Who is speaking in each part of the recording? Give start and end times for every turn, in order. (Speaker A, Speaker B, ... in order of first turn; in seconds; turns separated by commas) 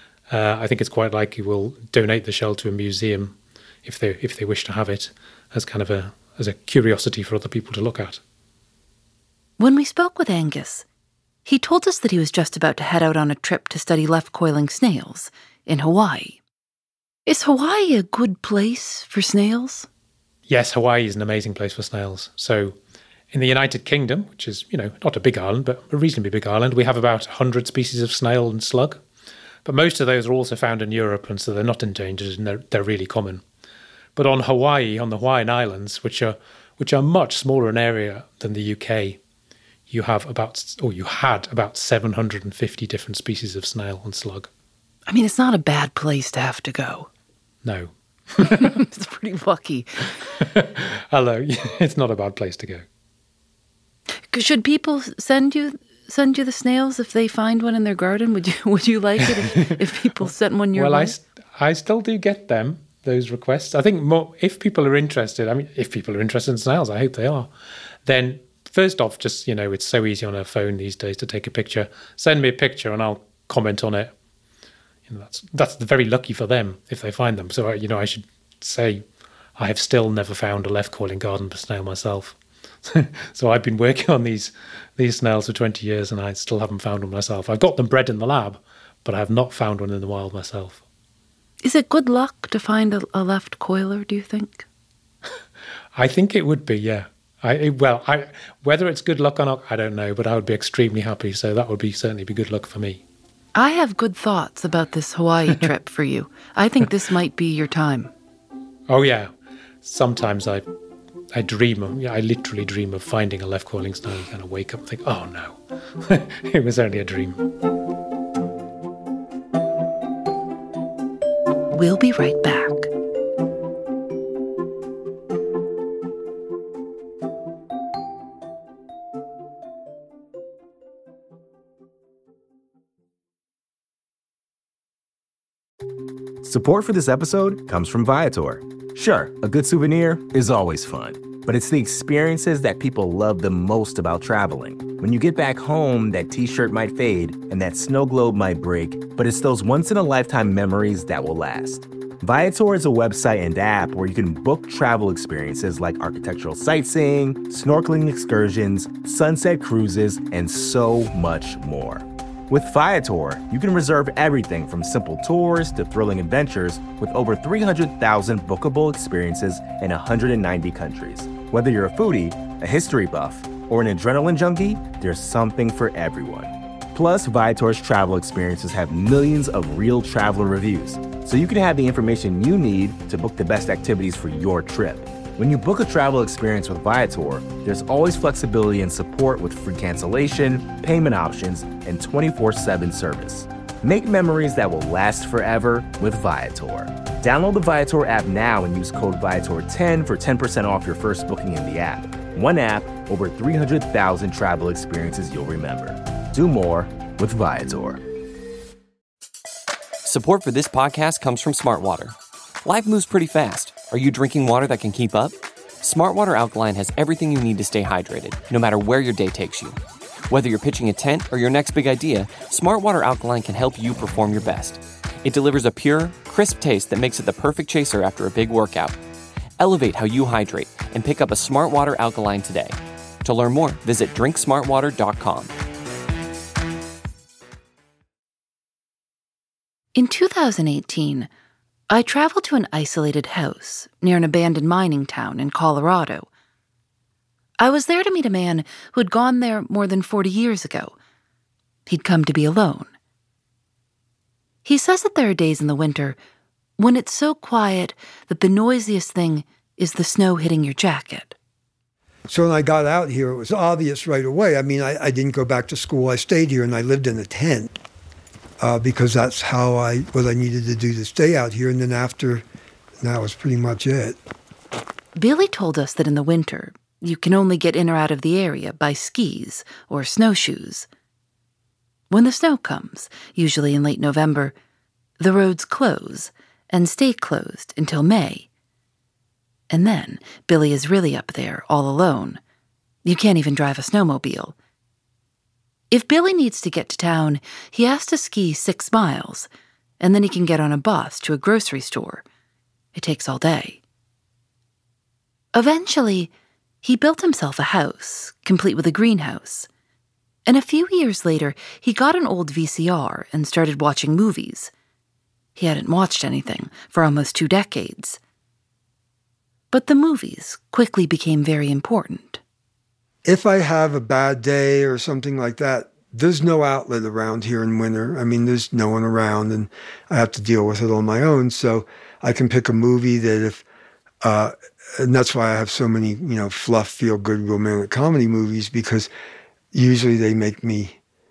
Speaker A: 0.3-8.2, Speaker B: 9.6-10.8, Speaker B: 11.5-16.4, Speaker B: 17.3-19.9, Speaker A: 20.5-22.8, Speaker A: 23.3-29.0, Speaker A: 29.6-33.4, Speaker A: 34.2-39.2, Speaker A: 39.9-44.5, Speaker B: 45.1-47.1, Speaker A: 47.6-48.7, Speaker B: 48.5-49.9, Speaker A: 50.5-52.9, Speaker B: 54.3-61.2, Speaker A: 59.2-59.8, Speaker A: 60.7-67.5, Speaker A: 68.0-74.1, Speaker A: 75.1-79.0, Speaker A: 79.6-90.8, Speaker B: 91.6-94.7, Speaker A: 96.0-103.0, Speaker B: 103.5-108.1, Speaker A: 108.9-110.7, Speaker A: 111.3-117.4, Speaker B: 121.7-122.9, Speaker C: 136.4-208.0, Speaker D: 210.1-219.8, Speaker D: 220.3-229.0, Speaker D: 229.6-235.5, Speaker B: 239.9-241.3, Speaker B: 241.9-246.3, Speaker B: 247.6-250.9, Speaker B: 251.9-252.9, Speaker B: 254.7-256.2, Speaker B: 256.8-261.4, Speaker E: 262.3-267.7, Speaker E: 268.6-272.4, Speaker E: 273.0-274.2, Speaker B: 275.2-280.9, Speaker B: 282.1-284.5, Speaker B: 285.2-288.5, Speaker B: 289.7-292.4, Speaker B: 293.1-294.6, Speaker B: 295.9-299.5, Speaker B: 300.0-302.2, Speaker B: 302.9-303.8, Speaker B: 305.5-306.3, Speaker B: 306.8-309.7, Speaker B: 310.5-314.7, Speaker B: 315.6-318.2, Speaker B: 319.7-322.4, Speaker E: 323.2-333.6, Speaker E: 334.3-334.5, Speaker E: 335.0-339.1, Speaker E: 339.7-340.9